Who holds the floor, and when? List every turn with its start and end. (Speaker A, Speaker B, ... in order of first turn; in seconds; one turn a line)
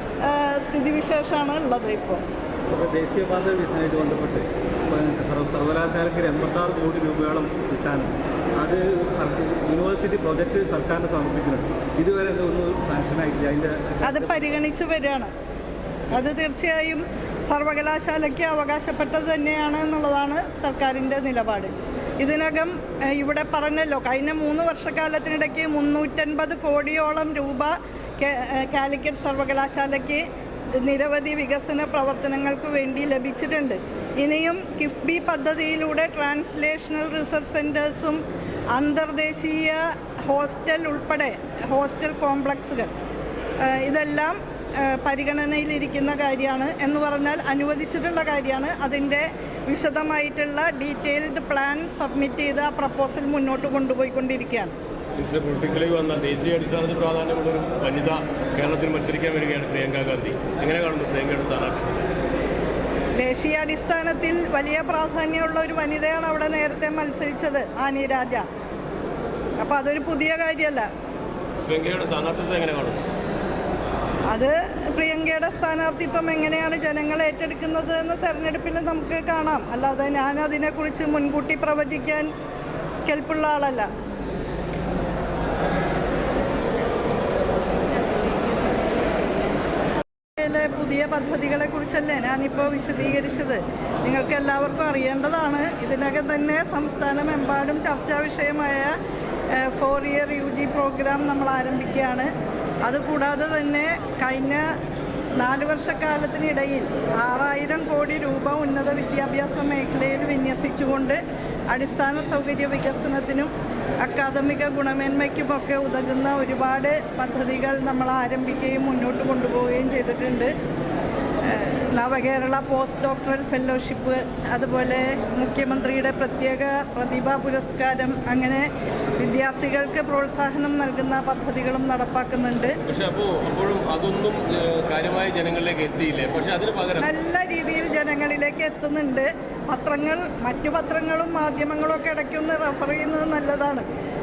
Speaker A: 0.2-2.2
Speaker B: 2.7-14.5
Speaker A: 14.0-15.3
Speaker A: 16.1-42.9
Speaker A: 43.6-54.8
Speaker C: 55.2-62.1
Speaker A: 63.2-68.5
Speaker A: 69.6-70.9
Speaker C: 71.7-73.0
Speaker A: 74.3-82.3
Speaker A: 83.1-83.9
Speaker A: 90.4-99.0
Speaker A: 99.5-102.3
Speaker A: 102.8-104.7
Speaker A: 105.4-120.5
Speaker A: 121.4-132.8
Speaker C: 132.8-137.1
Speaker A: 137.0-143.8